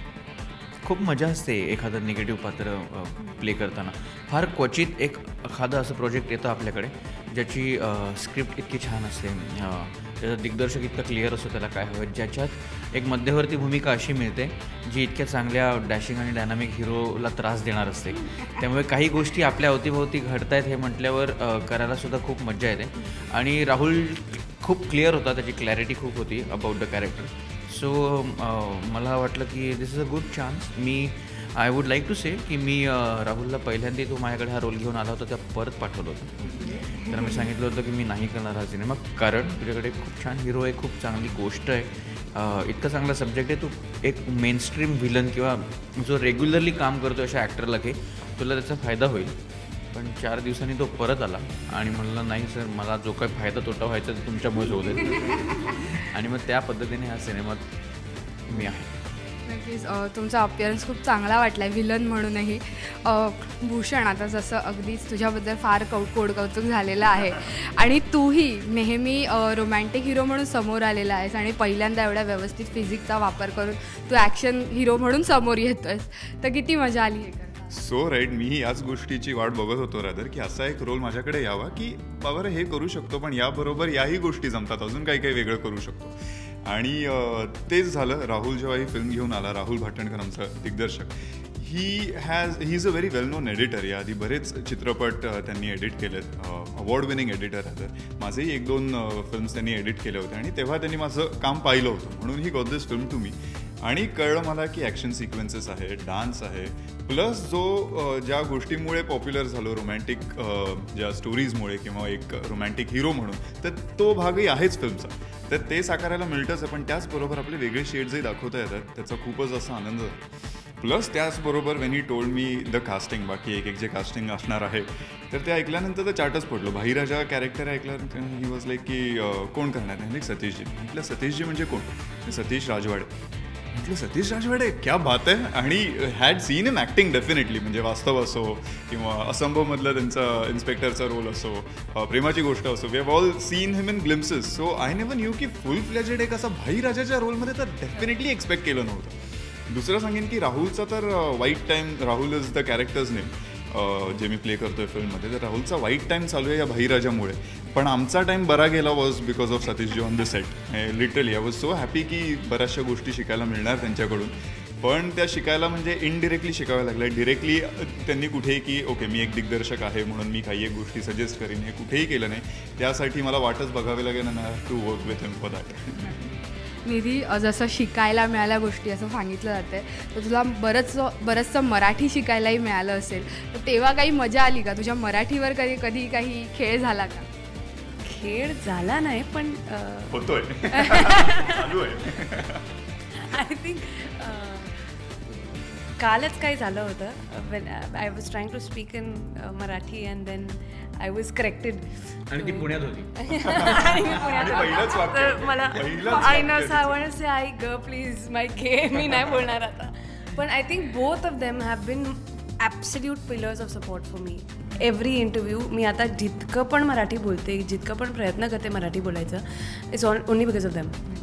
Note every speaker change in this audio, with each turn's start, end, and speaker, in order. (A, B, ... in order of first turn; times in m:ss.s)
0:00.8-0:49.4 A
0:36.6-0:37.4 B
0:49.9-0:57.6 A
0:58.5-0:58.9 A
0:59.5-1:17.8 C
1:17.7-2:00.2 D
2:00.8-2:13.1 D
2:13.7-2:29.2 D
2:29.7-2:56.2 D
2:56.8-3:07.3 C
3:08.0-3:11.8 B
3:10.1-3:12.7 D
3:13.1-3:41.0 B
3:22.3-3:24.2 A
3:23.4-3:27.0 D